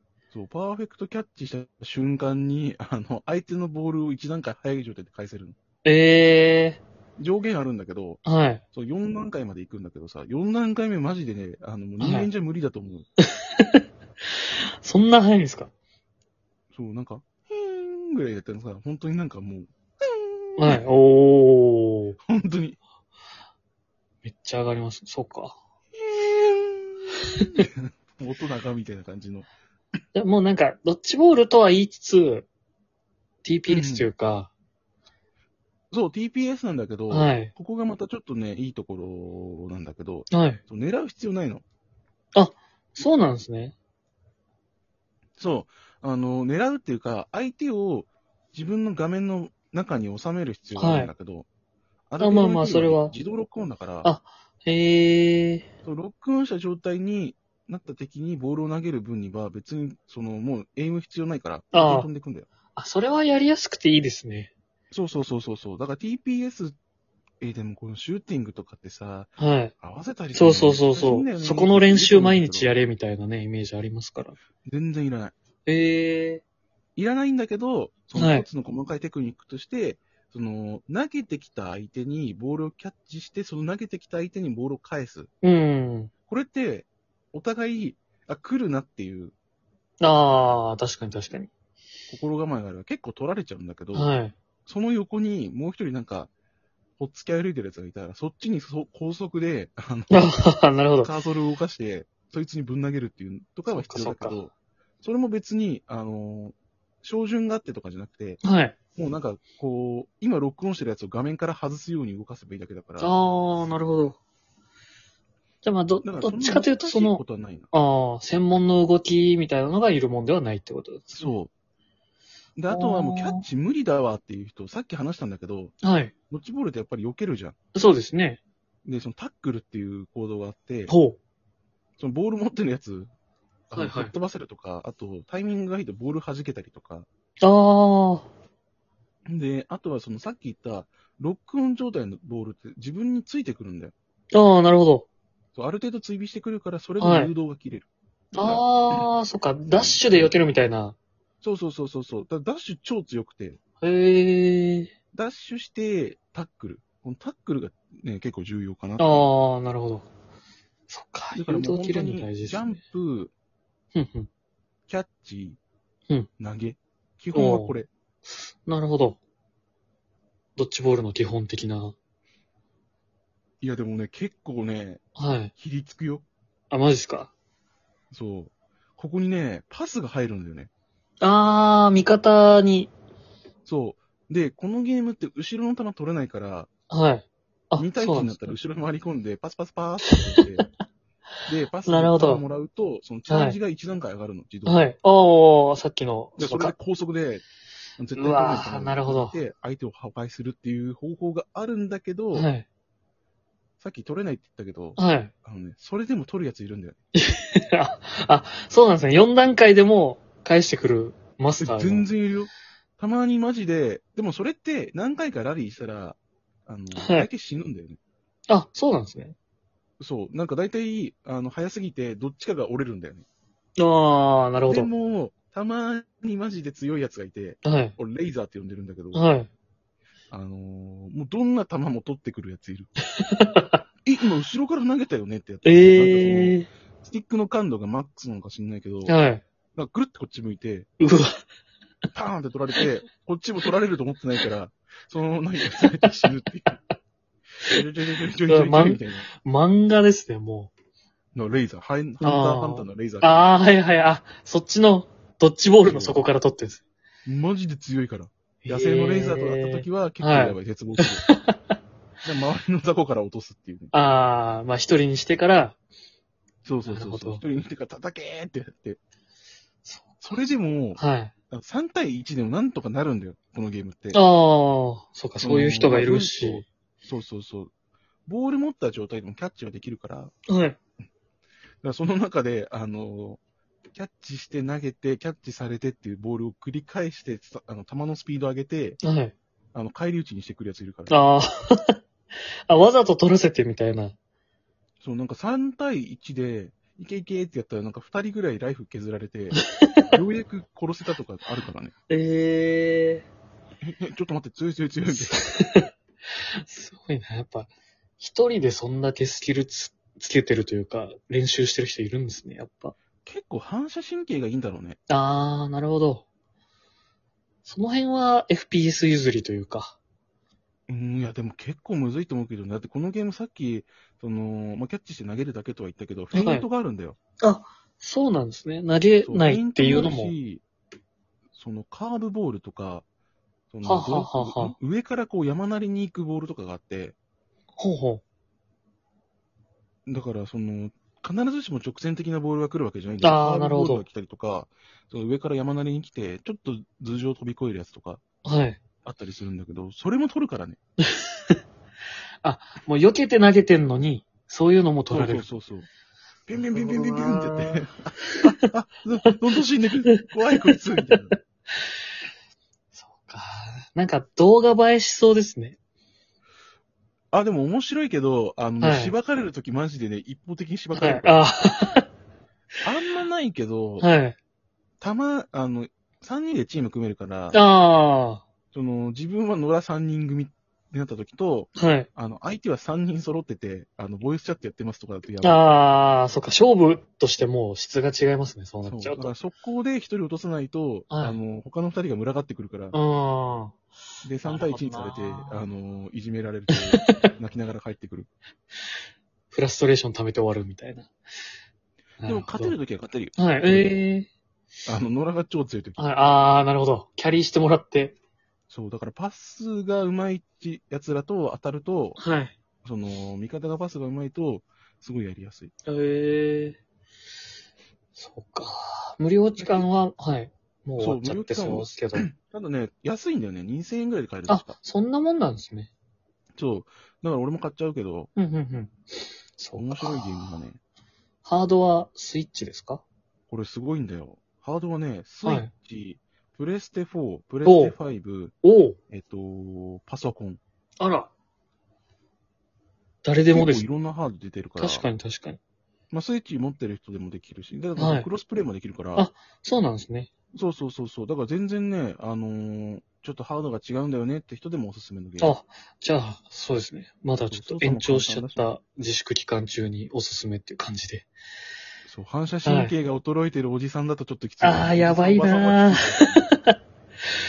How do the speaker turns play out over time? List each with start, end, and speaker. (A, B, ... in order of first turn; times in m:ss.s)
0:00.3-0:05.6 A
0:05.8-0:06.8 B
0:07.2-0:08.2 A
0:08.2-0:08.6 B
0:08.7-0:13.1 A
0:12.0-0:12.3 B
0:13.4-0:13.8 B
0:14.8-0:15.7 B
0:16.7-0:20.9 A
0:20.6-0:22.2 B
0:22.2-0:22.8 A
0:24.2-0:25.6 B
0:26.0-0:29.5 A
0:27.4-0:27.6 B
0:30.2-0:32.5 B
0:33.4-0:34.5 B
0:33.7-0:34.1 A
0:35.9-0:41.6 A
0:37.1-0:37.5 B
0:40.3-0:40.6 B
0:42.4-0:43.8 B
0:45.4-0:51.5 A
0:50.8-0:51.1 B
0:52.1-0:54.1 A
0:52.2-0:53.1 B
0:54.0-0:55.7 B
0:55.8-1:02.5 A
1:01.7-1:02.1 B
1:02.8-1:04.5 B
1:04.9-1:06.8 A
1:07.4-1:12.8 A
1:09.4-1:09.7 B
1:10.3-1:14.4 B
1:14.6-1:15.3 A
1:15.7-1:16.4 B
1:17.0-1:25.3 A
1:18.2-1:18.5 B
1:25.4-1:26.1 B
1:26.3-1:29.4 A
1:30.0-1:31.5 B
1:32.1-1:34.1 A
1:33.9-1:34.4 B
1:34.7-1:36.3 A
1:37.0-1:40.4 A
1:40.1-1:41.1 B
1:41.0-1:48.4 A
1:43.8-1:44.4 B
1:48.4-1:48.8 B
1:49.0-1:53.1 A
1:53.0-1:54.2 B
1:55.6-1:57.2 B
1:56.0-1:57.7 A
1:57.7-2:01.3 B
2:01.1-2:01.5 A
2:02.6-2:05.8 A
2:02.7-2:03.4 B
2:05.8-2:06.1 B
2:06.3-2:07.6 A
2:07.8-2:08.4 B
2:08.8-2:10.9 A
2:10.9-2:11.2 B
2:12.0-2:13.1 A
2:13.7-2:17.1 A
2:13.8-2:14.2 B
2:17.4-2:18.3 B
2:19.3-2:23.9 A
2:24.3-2:25.1 B
2:25.6-2:29.1 A
2:27.0-2:27.3 B
2:28.4-2:31.0 B
2:29.7-2:30.4 A
2:31.4-2:33.6 A
2:33.8-2:34.9 B
2:35.1-2:39.3 A
2:39.0-2:40.1 B
2:40.9-2:42.8 B
2:41.3-2:43.3 A
2:44.0-2:44.3 B
2:44.9-2:45.6 A
2:46.4-2:47.9 A
2:47.3-2:47.8 B
2:48.6-2:49.2 B
2:50.6-2:52.0 B
2:53.6-2:55.0 A
2:55.2-2:55.5 B
2:55.6-2:56.2 A
2:56.7-2:57.3 B
2:58.1-3:00.7 A
3:01.2-3:02.9 B
3:03.7-3:06.7 A
3:06.9-3:08.6 B
3:07.8-3:10.7 A
3:10.1-3:10.6 B
3:11.5-3:14.8 A
3:11.9-3:12.4 B
3:13.3-3:13.6 B
3:14.7-3:16.7 B
3:16.4-3:17.4 A
3:18.0-3:22.5 A
3:18.2-3:19.4 B
3:22.3-3:22.6 B
3:23.8-3:27.0 A
3:25.0-3:25.3 B
3:27.2-3:32.1 B
3:31.6-3:38.0 A
3:37.0-3:37.3 B
3:38.5-3:39.4 B
3:40.0-3:43.3 A
3:43.8-3:44.9 B
3:44.7-3:49.3 A
3:47.6-3:48.0 B
3:49.1-3:49.5 B
3:50.3-3:52.9 A
3:53.2-3:53.8 B
3:54.0-3:59.2 A
3:55.6-3:56.7 B
3:59.1-3:59.4 B
3:59.8-4:00.9 A
4:01.0-4:01.4 B
4:02.1-4:06.8 A
4:05.7-4:06.3 B
4:07.6-4:09.3 A
4:08.5-4:10.7 B
4:11.4-4:13.5 A
4:12.2-4:16.8 B
4:15.8-4:16.2 A
4:17.3-4:21.3 A
4:18.6-4:21.6 B
4:22.2-4:23.9 A
4:23.9-4:25.8 B
4:26.6-4:29.0 A
4:26.9-4:27.4 B
4:29.8-4:30.2 B
4:30.2-4:34.2 A
4:31.0-4:31.3 B
4:34.1-4:36.6 B
4:35.4-4:37.7 A
4:38.3-4:40.3 A
4:40.5-4:40.8 B
4:41.8-4:43.4 A
4:43.9-4:49.0 A
4:49.0-4:49.3 B
4:49.7-4:51.3 A
4:51.1-4:52.0 B
4:52.7-4:54.2 B
4:55.0-5:01.9 A
4:59.6-4:59.8 B
5:02.1-5:03.3 B
5:03.8-5:05.4 A
5:05.2-5:05.9 B
5:06.6-5:12.9 B
5:13.3-5:15.0 A
5:15.1-5:16.2 B
5:17.6-5:20.0 B
5:20.9-5:27.2 A
5:26.3-5:26.7 B
5:27.4-5:30.3 B
5:29.2-5:30.6 A
5:31.5-5:33.0 A
5:33.7-5:37.2 A
5:33.8-5:34.8 B
5:37.8-5:38.2 B
5:40.1-5:48.2 A
5:43.2-5:44.0 B
5:48.4-5:48.8 B
5:49.0-5:50.8 A
5:51.0-5:51.6 B
5:52.4-5:55.5 B
5:55.1-5:55.9 A
5:56.5-6:01.4 A
5:56.6-5:58.6 B
6:00.1-6:00.8 B
6:03.0-6:05.8 B
6:07.3-6:11.5 A
6:08.8-6:09.2 B
6:10.9-6:12.1 B
6:12.8-6:14.1 A
6:14.0-6:14.4 B
6:15.0-6:17.6 A
6:17.5-6:18.4 B
6:18.7-6:25.6 A
6:21.8-6:22.1 B
6:25.4-6:29.3 B
6:28.9-6:33.0 A
6:31.1-6:31.4 B
6:32.9-6:33.8 B
6:34.2-6:38.3 A
6:34.4-6:35.6 B
6:36.7-6:37.3 B
6:39.5-6:41.1 B
6:42.2-6:42.8 B
6:42.3-6:44.0 A
6:43.4-6:44.3 B
6:44.8-6:46.1 A
6:46.0-6:48.2 B
6:48.7-6:52.2 A
6:52.2-6:52.5 B
6:52.8-6:55.7 A
6:55.9-6:56.8 B
6:58.2-7:02.3 B
6:59.6-6:59.9 A
7:01.0-7:04.8 A
7:04.5-7:05.9 B
7:06.6-7:08.3 A
7:08.4-7:10.5 B
7:09.8-7:10.8 A
7:11.4-7:13.0 B
7:13.5-7:18.6 A
7:15.4-7:15.7 B
7:17.6-7:18.0 B
7:18.6-7:19.0 B
7:19.1-7:20.6 A
7:21.0-7:21.3 B
7:23.2-7:23.8 B
7:23.5-7:25.1 A
7:24.8-7:25.6 B
7:26.1-7:29.3 A
7:28.0-7:28.3 B
7:29.2-7:30.3 B
7:30.5-7:35.6 A
7:35.4-7:41.3 B
7:37.5-7:38.7 A
7:42.0-7:46.5 A
7:42.6-7:42.9 B
7:44.6-7:46.8 B